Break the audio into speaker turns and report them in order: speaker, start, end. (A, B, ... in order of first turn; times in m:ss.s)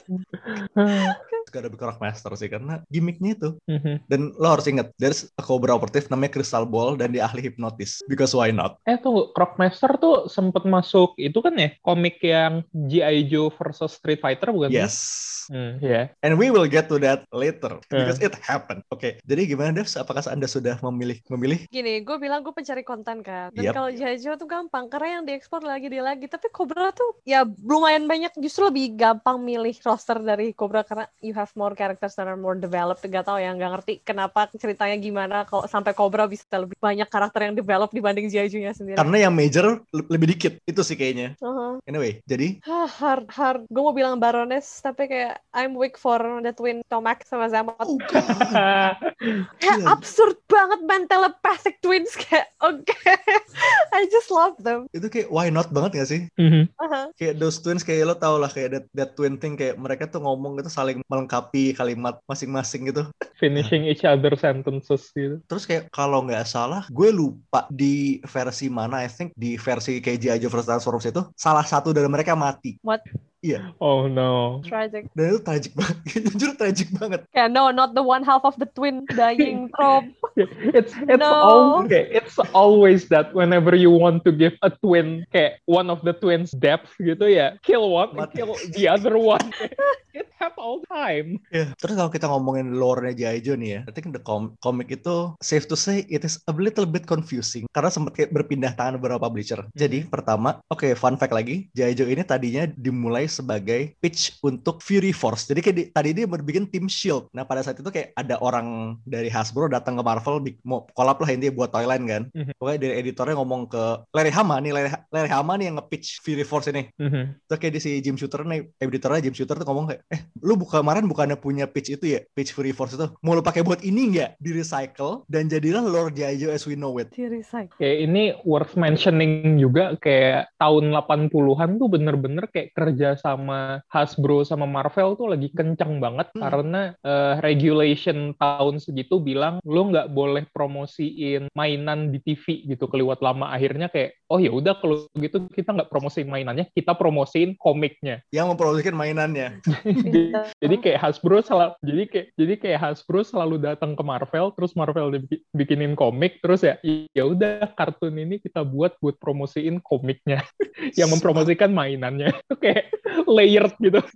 0:00.1-0:01.1 A
0:01.1-0:01.4 B
0:01.5-0:03.5 C
0:03.7-0:04.0 A
0:04.1-0:08.7 C
0:08.9-0:14.9 A
0:14.7-0:15.5 C
0:15.5-0:16.1 A
0:16.2-0:21.6 C
0:17.9-0:18.2 A
0:21.7-0:39.1 B
0:23.6-0:24.0 C
0:39.0-0:41.3 C
0:41.4-0:41.8 B
0:41.9-0:42.6 C
0:42.6-0:48.1 B
0:47.8-0:48.7 C
0:48.3-0:49.4 A
0:49.6-0:54.9 B
0:49.7-0:50.0 C
0:54.9-0:56.3 C
0:56.4-0:56.7 A
0:56.8-0:57.1 B
0:57.2-1:03.7 C
1:03.4-1:05.4 A
1:05.5-1:12.8 C
1:13.8-1:14.6 A
1:14.6-1:15.1 B
1:15.1-1:17.2 C
1:17.3-1:20.3 B
1:20.4-1:31.4 A
1:21.1-1:21.9 B
1:28.1-1:29.0 C
1:31.5-1:56.9 C
1:39.8-1:40.1 A
1:57.0-1:57.4 A
1:57.5-2:07.1 C
2:07.1-2:07.7 B
2:07.8-2:28.2 A
2:28.3-2:29.6 C
2:29.7-2:40.4 A
2:30.0-2:30.8 B
2:40.9-2:44.0 A
2:41.0-2:41.5 C